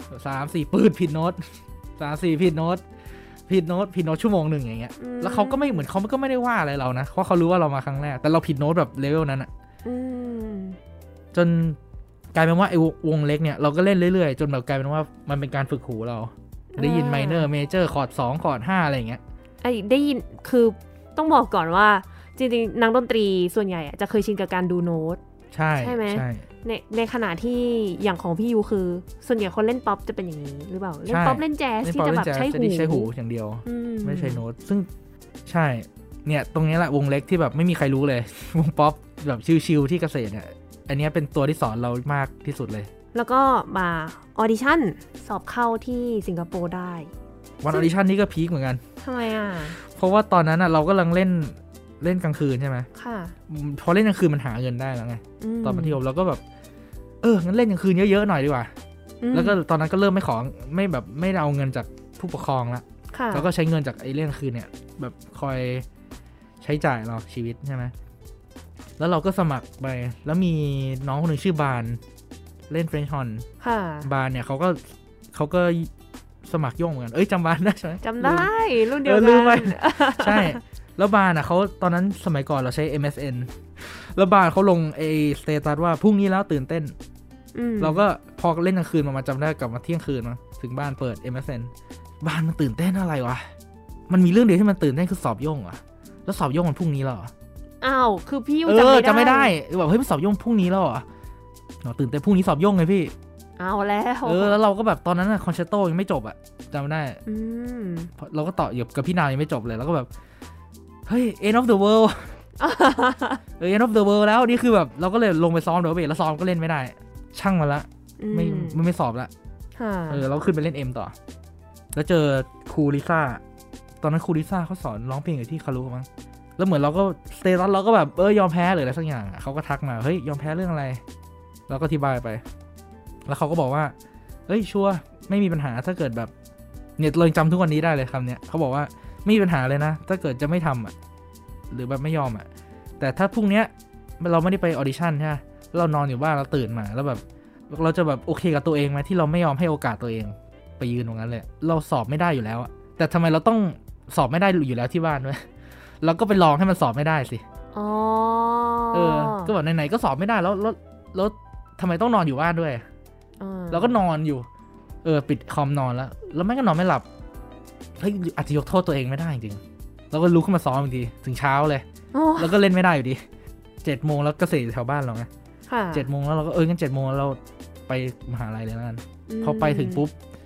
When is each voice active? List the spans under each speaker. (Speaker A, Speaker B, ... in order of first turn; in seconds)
Speaker A: 0.1-2.8, 3.5-9.5, 11.3-11.8, 12.3-19.2, 25.5-26.4, 31.1-34.9, 35.5-42.9, 47.6-48.8, 49.7-52.9, 53.5-56.4, 57.2-58.7, 59.3-65.9, 66.6-67.9, 69.0-72.0, 72.7-73.5, 74.0-75.9, 76.5-87.0, 87.8-93.5, 94.1-97.3, 98.7-101.1, 101.8-103.1, 104.2-107.2, 108.2-110.1, 111.1-112.4, 113.6-119.3, 120.1-121.2, 121.9-123.4, 124.0-131.0, 131.7-132.4, 133.3-133.9, 134.5-136.3, 137.0-140.9, 141.7-142.5, 143.0-155.5, 156.0-157.4, 158.9-162.8, 163.7-164.5, 165.0-167.1, 168.0-171.8, 172.4-173.2, 173.8-175.3, 175.9-180.2
Speaker B: 5.0-5.9, 9.8-10.8, 16.7-17.5, 19.6-25.2, 25.8-33.1, 33.6-34.4, 43.1-47.1, 49.0-49.8, 53.0-53.4, 55.4-56.0, 59.2-59.6, 63.1-63.5, 73.6-74.1, 78.0-80.6, 87.5-88.0, 97.8-99.5, 103.6-104.6, 107.3-108.1, 112.6-113.4, 118.2-118.8, 119.8-120.2, 157.7-159.5, 163.4-164.0, 172.1-172.6, 175.7-176.1, 179.3-180.0